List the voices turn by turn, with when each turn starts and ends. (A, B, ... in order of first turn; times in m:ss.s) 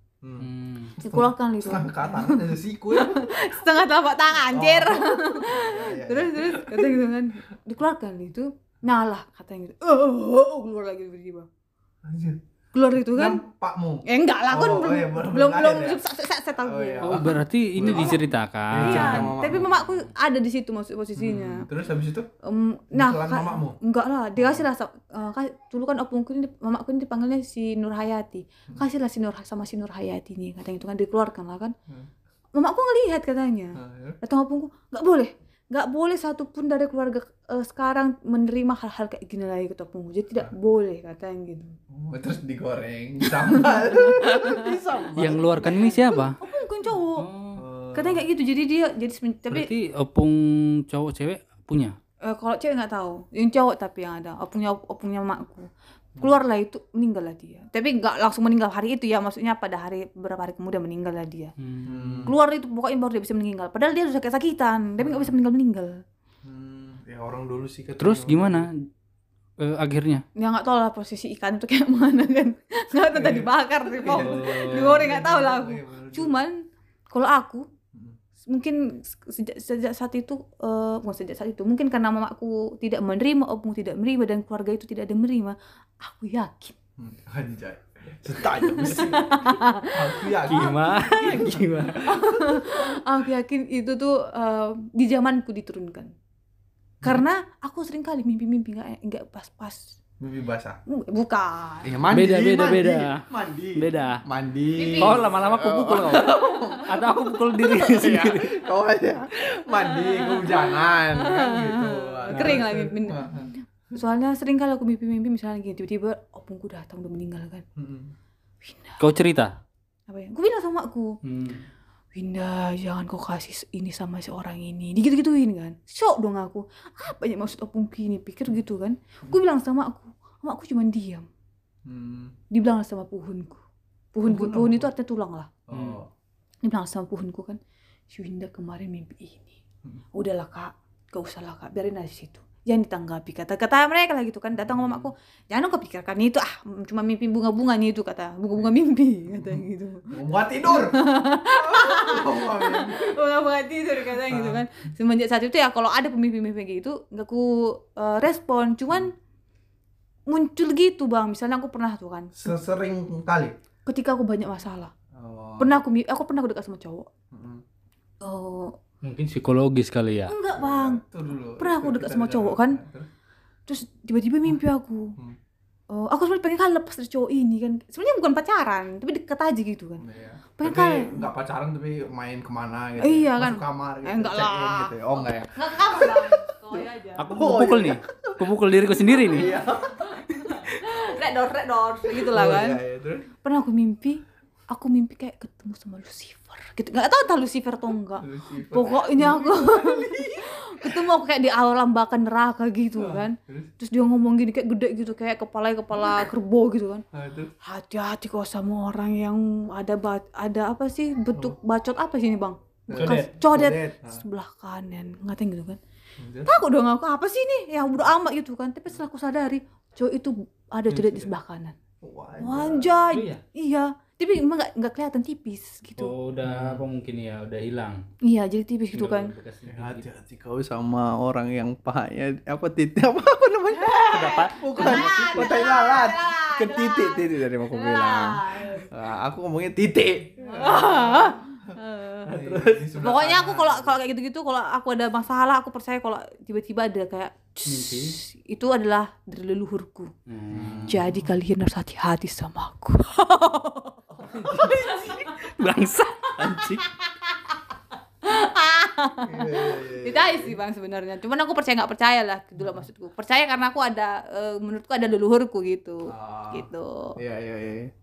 0:00.2-0:03.4 A
0:00.4-0:01.0 B
0:01.0-0:11.5 C
0:04.5-0:07.0 A
0:12.0-0:12.4 A
0:12.7-0:13.4 C
0:13.0-0:16.0 A
0:14.1-0:17.3 C
0:16.6-0:19.8 A
0:17.0-0:19.4 B
0:17.8-0:18.2 C
0:18.8-0:21.7 C
0:21.2-0:22.3 A
0:22.4-0:31.8 C
0:22.9-0:23.8 A
0:24.4-0:24.7 A
0:32.6-0:41.8 C
0:33.8-0:34.2 A
0:41.9-0:46.0 A
0:43.6-0:44.8 C
0:45.2-0:46.4 B
0:45.6-0:47.3 C
0:47.2-0:47.6 B
0:47.6-0:48.3 A
0:47.9-0:49.7 C
0:49.5-0:52.0 B
0:52.2-1:01.5 C
1:01.6-1:02.3 B
1:01.8-1:02.4 A
1:02.2-1:06.0 C
1:05.0-1:05.4 A
1:06.4-1:08.7 A
1:08.0-1:08.9 B
1:09.6-1:10.2 B
1:10.4-1:17.7 C
1:13.0-1:16.4 A
1:14.0-1:15.0 B
1:18.5-1:26.8 C
1:27.0-1:33.0 A
1:28.6-1:36.1 C
1:30.4-1:32.2 B
1:37.0-1:39.9 C
1:40.2-1:40.8 A
1:40.9-1:42.0 C
1:41.8-1:53.5 A
1:42.1-1:44.2 B
1:44.7-1:45.2 C
1:45.0-1:48.6 B
1:49.7-1:57.6 C
1:52.3-1:52.6 B
1:57.8-1:58.1 A
1:58.6-1:59.0 C
1:59.0-1:59.6 B
2:00.1-2:01.2 C
2:01.2-2:01.6 B
2:02.1-2:11.3 C
2:11.8-2:12.4 A
2:12.5-2:13.6 C
2:14.1-2:15.5 C
2:14.2-2:14.9 A
2:15.7-2:16.1 A
2:15.7-2:16.0 B
2:16.6-2:17.6 C
2:18.1-2:19.6 C
2:20.2-2:30.1 C
2:24.6-2:25.1 A
2:29.3-2:33.2 A
2:30.7-2:39.1 C
2:34.3-2:34.6 A
2:40.3-2:42.4 C
2:42.3-2:43.6 A
2:43.9-2:44.9 C
2:45.1-2:45.8 A
2:45.6-2:47.1 C
2:47.3-2:47.6 A
2:48.2-2:48.8 C
2:49.0-2:50.4 B
2:50.3-2:51.0 C
2:50.6-2:53.1 A
2:51.6-2:52.8 C
2:53.7-2:55.2 C
2:55.9-3:00.0 C
3:00.0-3:08.4 A
3:00.6-3:01.3 C
3:03.0-3:07.3 C
3:07.2-3:09.5 B
3:09.3-3:10.2 A
3:09.3-3:12.8 C
3:12.1-3:13.3 A
3:13.4-3:27.0 C
3:18.2-3:21.1 A
3:23.0-3:23.7 A
3:27.1-3:27.5 A
3:27.6-3:35.8 C
3:32.9-3:34.2 A
3:32.9-3:33.4 B
3:36.2-3:36.5 A
3:36.4-3:41.8 C
3:40.9-3:41.3 A
3:42.0-3:43.0 A
3:42.4-3:46.2 C
3:43.1-3:43.4 B
3:46.0-3:48.0 B
3:46.4-3:46.8 A
3:48.2-3:49.3 C
3:49.0-3:50.1 B
3:49.7-4:04.0 A
3:53.7-3:58.9 C
3:54.1-3:55.6 B
4:00.4-4:10.1 C
4:02.4-4:02.8 B
4:07.7-4:08.2 B
4:10.3-4:11.2 B
4:10.5-4:11.1 A
4:10.8-4:14.2 C
4:14.2-4:16.9 B
4:14.4-4:15.3 A
4:14.8-4:15.2 C
4:18.2-4:27.2 C
4:19.2-4:20.6 A
4:26.1-4:27.9 A